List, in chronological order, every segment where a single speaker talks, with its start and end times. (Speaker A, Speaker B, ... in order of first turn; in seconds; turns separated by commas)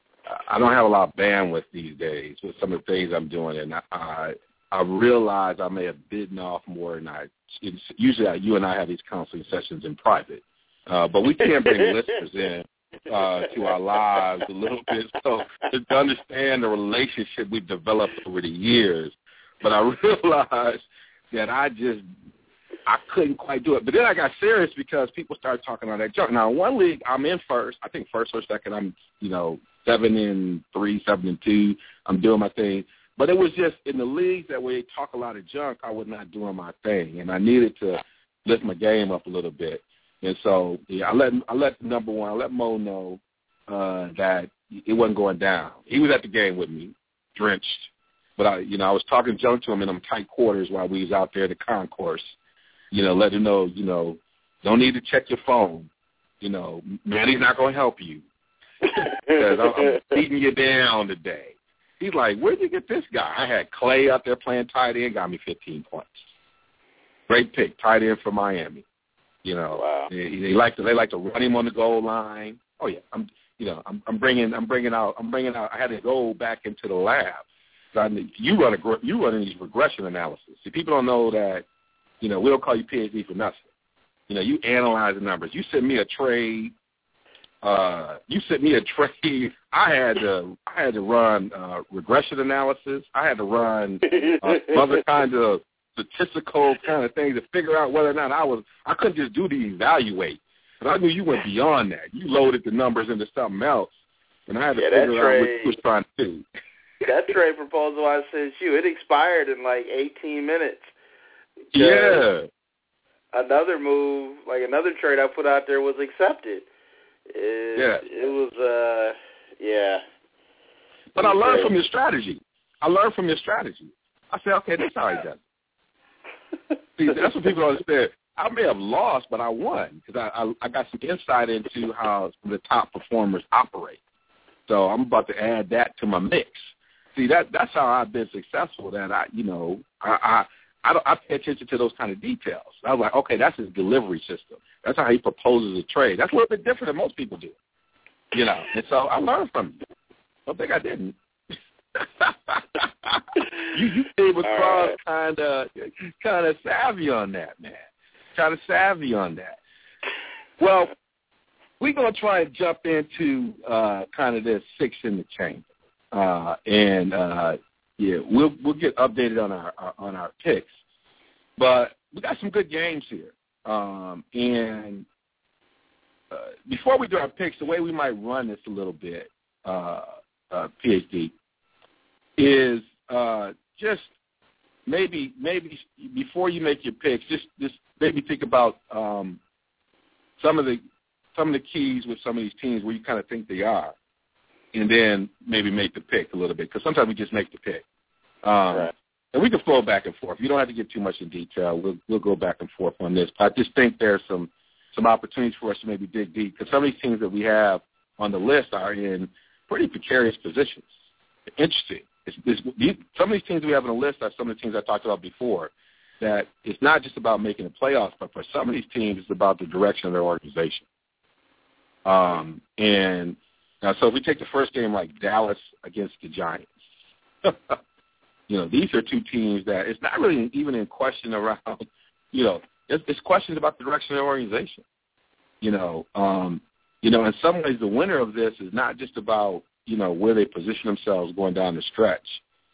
Speaker A: 0.3-22.1, Speaker A: 22.9-52.3, Speaker A: 52.9-55.9, Speaker A: 56.4-58.2, Speaker A: 58.9-66.3, Speaker B: 59.0-60.0, Speaker A: 67.3-68.8, Speaker A: 69.4-81.7, Speaker B: 69.7-70.1, Speaker A: 82.2-83.6, Speaker A: 84.3-86.7, Speaker A: 87.6-103.9, Speaker A: 104.5-106.5, Speaker B: 104.8-105.8, Speaker B: 107.0-110.9, Speaker B: 111.7-112.2, Speaker A: 111.7-112.5, Speaker B: 113.3-116.6, Speaker B: 117.3-120.0, Speaker A: 117.8-118.0, Speaker A: 121.1-125.4, Speaker B: 121.2-121.7, Speaker A: 127.0-134.0, Speaker A: 134.7-147.5, Speaker A: 148.3-149.8, Speaker A: 150.5-151.2, Speaker A: 151.9-159.6, Speaker B: 154.4-154.9, Speaker A: 160.6-160.9, Speaker A: 161.8-170.7, Speaker A: 171.6-175.1, Speaker A: 176.3-181.3, Speaker A: 182.4-184.1, Speaker A: 184.8-189.4, Speaker A: 190.4-190.8, Speaker A: 191.3-193.9, Speaker A: 194.7-197.8, Speaker A: 198.4-210.9, Speaker A: 211.6-220.8, Speaker A: 222.0-226.8, Speaker A: 227.4-227.8, Speaker A: 228.5-234.8, Speaker A: 235.6-242.4